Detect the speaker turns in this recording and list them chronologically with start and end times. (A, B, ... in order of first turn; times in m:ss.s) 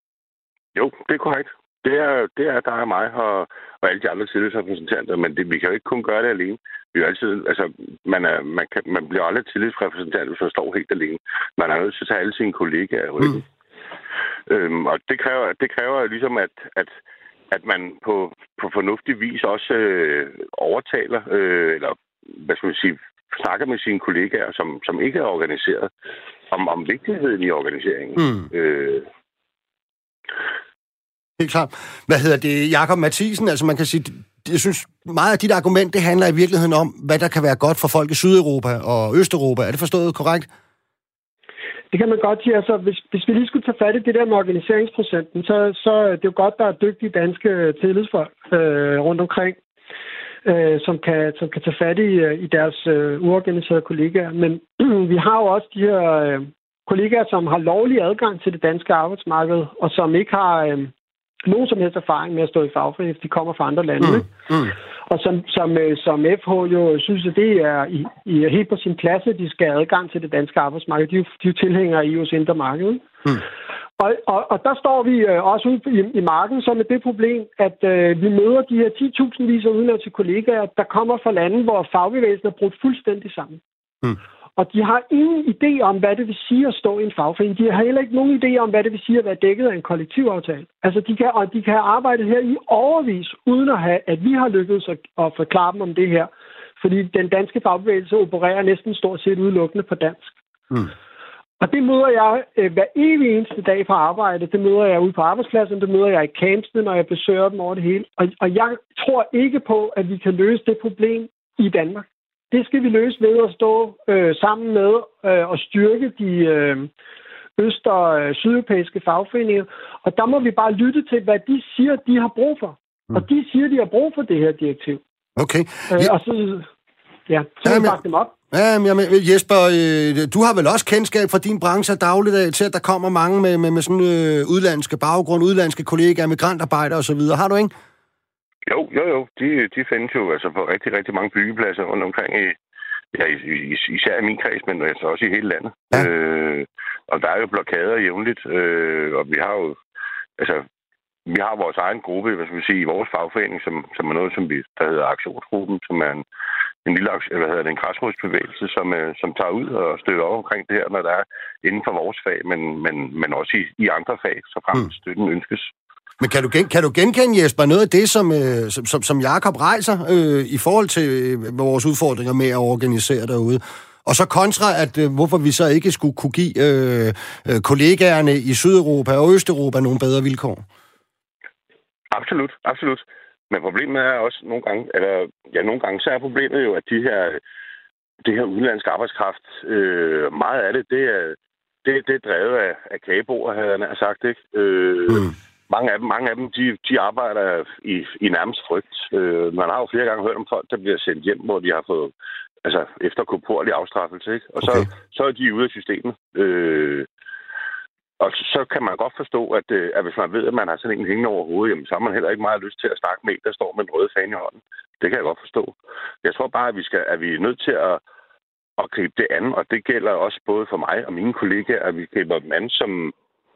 0:00.8-0:13.5 A
0:14.5-0:17.0 A
0:17.5-0:25.9 A
0:26.5-0:29.1 A
0:28.2-0:28.5 B
0:31.4-0:40.5 B
0:41.9-0:49.6 C
0:50.4-1:00.9 C
1:01.5-1:04.3 C
1:04.0-1:04.7 B
1:05.1-1:13.1 C
1:14.0-1:23.6 C
1:24.6-1:40.3 C
1:41.6-1:56.9 C
1:57.6-2:05.0 C
2:05.4-2:06.1 B
2:05.9-2:06.7 C
2:07.3-2:08.3 C
2:07.6-2:17.7 B
2:18.7-2:22.6 A
2:23.1-2:29.8 A
2:30.4-2:30.6 A
2:31.3-2:36.2 A
2:36.8-2:45.7 A
2:46.2-3:00.6 B
3:02.1-3:07.4 A
3:08.2-3:22.1 A
3:22.6-3:27.1 A
3:28.2-3:38.0 A
3:38.8-3:43.1 A